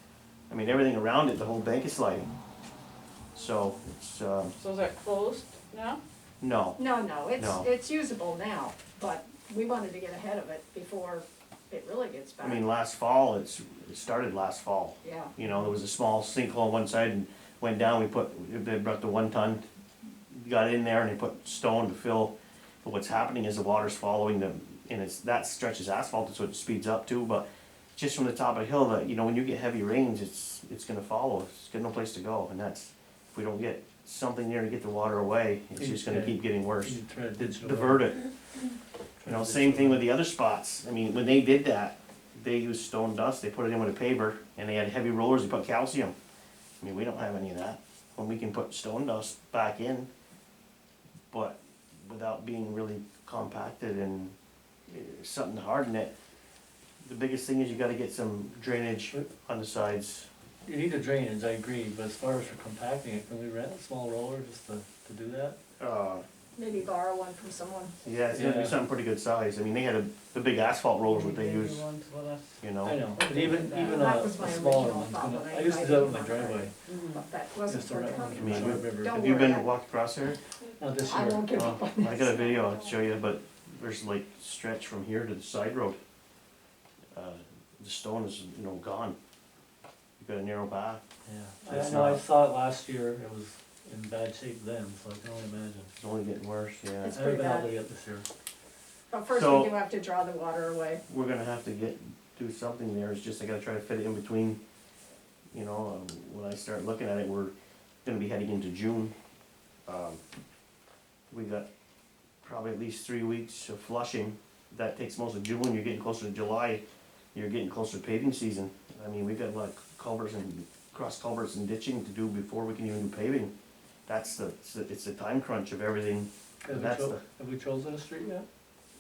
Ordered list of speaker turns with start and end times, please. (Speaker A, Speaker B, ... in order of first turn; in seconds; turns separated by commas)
Speaker A: 0.5-2.3, Speaker A: 3.3-4.5, Speaker B: 4.6-6.0, Speaker A: 6.4-6.8, Speaker C: 6.8-12.6, Speaker A: 7.4-7.7, Speaker A: 12.4-19.6, Speaker C: 15.0-15.3, Speaker A: 20.3-38.3, Speaker D: 35.8-38.1, Speaker D: 39.2-40.1, Speaker A: 39.2-46.1, Speaker A: 46.8-50.1, Speaker A: 51.3-54.4, Speaker A: 54.9-56.1, Speaker A: 57.0-60.3, Speaker D: 60.6-65.6, Speaker A: 65.8-66.2, Speaker C: 66.6-67.9, Speaker A: 68.0-71.8, Speaker D: 68.3-68.8, Speaker B: 71.0-72.6, Speaker A: 72.6-73.0, Speaker D: 72.8-76.7, Speaker B: 73.1-74.2, Speaker C: 73.5-79.7, Speaker B: 76.9-77.3, Speaker D: 77.7-79.3, Speaker A: 78.3-80.4, Speaker D: 80.8-81.6, Speaker C: 81.0-82.3, Speaker A: 81.5-86.0, Speaker A: 87.1-89.2, Speaker A: 90.2-91.0, Speaker D: 91.3-95.9, Speaker A: 91.7-92.2, Speaker A: 96.0-97.2, Speaker C: 97.0-97.7, Speaker D: 97.1-98.3, Speaker C: 99.1-101.0, Speaker A: 99.3-99.8, Speaker A: 101.1-104.6, Speaker A: 105.5-107.5, Speaker A: 108.0-109.1, Speaker A: 109.9-110.2, Speaker A: 111.3-111.7, Speaker A: 112.4-116.8, Speaker A: 117.3-123.5, Speaker A: 124.1-127.2, Speaker D: 126.6-128.5